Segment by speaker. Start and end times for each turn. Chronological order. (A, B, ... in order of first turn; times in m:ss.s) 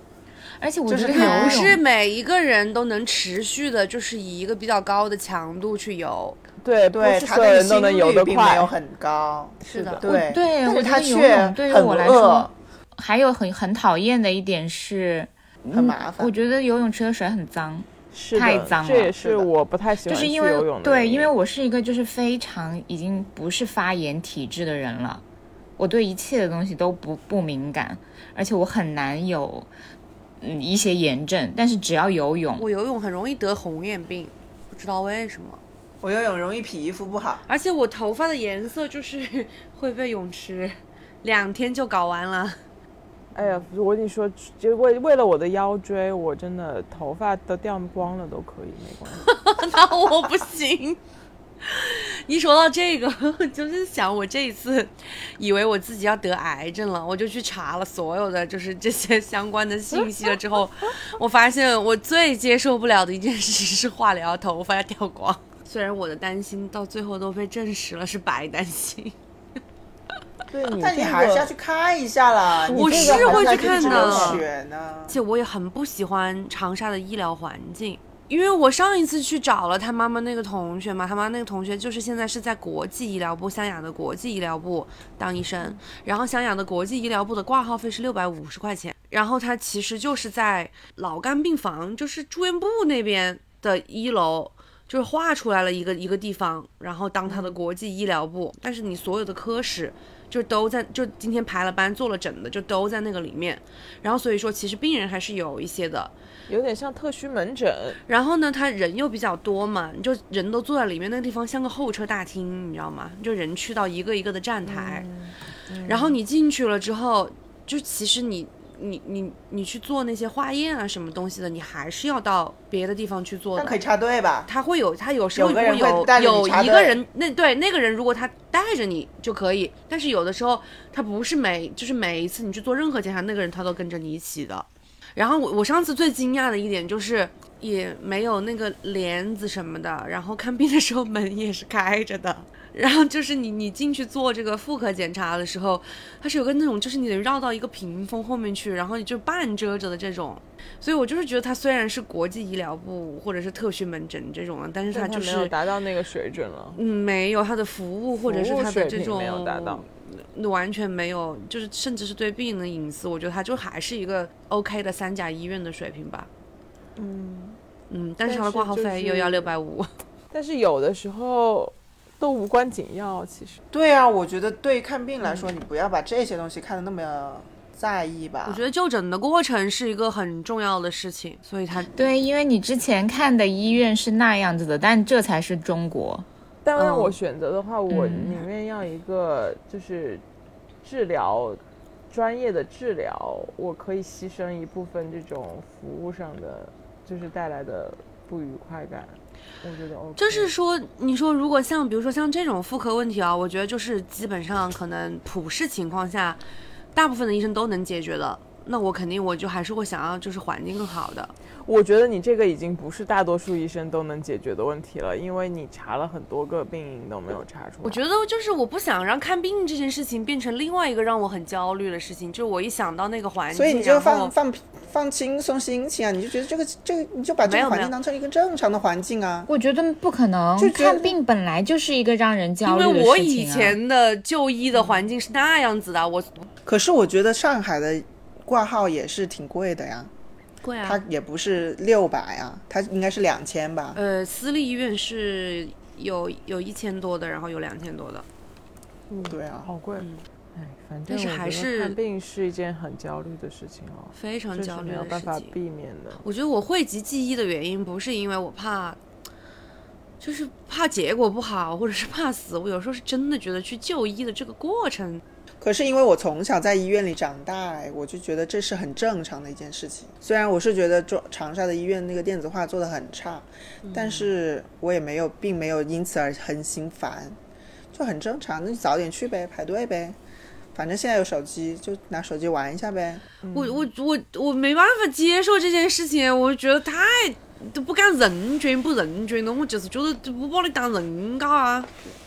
0:00.6-0:01.8 A
0:00.9-0:01.8 B
0:01.1-0:06.4 C
0:06.6-0:08.7 D
0:06.9-0:12.5 B
0:09.6-0:10.0 D
0:09.7-0:10.0 C
0:10.0-0:19.2 A
0:15.7-0:16.3 B
0:18.1-0:21.3 D
0:19.2-0:19.5 B
0:20.1-0:25.2 A
0:25.8-0:29.7 A
0:30.4-0:32.6 A
0:32.6-0:35.6 C
0:36.0-0:37.4 B
0:37.5-0:42.6 C
0:43.3-0:49.3 D
0:49.2-0:51.0 C
0:51.6-1:09.2 C
1:10.5-1:11.5 D
1:10.7-1:15.2 B
1:12.7-1:14.4 D
1:12.7-1:14.5 C
1:15.1-1:46.1 C
1:37.3-1:37.6 D
1:46.5-1:48.0 D
1:48.1-1:55.1 C
1:54.6-1:56.2 D
1:55.9-2:03.8 C
2:03.6-2:04.5 B
2:04.5-2:35.5 C
2:05.4-2:07.0 B
2:34.9-2:36.8 D
2:36.8-2:46.3 C
2:38.2-2:39.8 D
2:47.0-2:47.6 D
2:47.9-2:49.9 C
2:48.2-2:49.5 D
2:50.3-2:53.6 D
2:53.7-2:58.6 B
2:58.5-3:01.9 C
3:01.9-3:06.3 A
3:06.6-3:10.2 D
3:07.9-3:08.4 A
3:10.8-3:20.5 D
3:20.2-3:26.4 C
3:27.0-3:31.3 C
3:31.6-3:38.0 D
3:37.8-3:44.3 C
3:43.5-3:49.5 B
3:47.4-3:47.9 C
3:49.5-3:53.8 A
3:50.6-3:51.2 B
3:52.6-3:56.5 C
3:56.6-4:00.1 B
4:00.6-4:01.0 C
4:00.8-4:04.0 B
4:04.0-4:08.3 C
4:09.1-4:16.2 D
4:09.3-4:09.7 B
4:10.0-4:10.2 C
4:11.1-4:12.0 C
4:14.1-4:15.5 C
4:16.2-4:19.0 C
4:20.2-4:25.2 C
4:25.6-4:37.4 B
4:33.8-4:34.3 C
4:37.9-4:40.2 B
4:40.8-4:43.2 B
4:43.4-4:43.9 D
4:43.5-4:51.9 C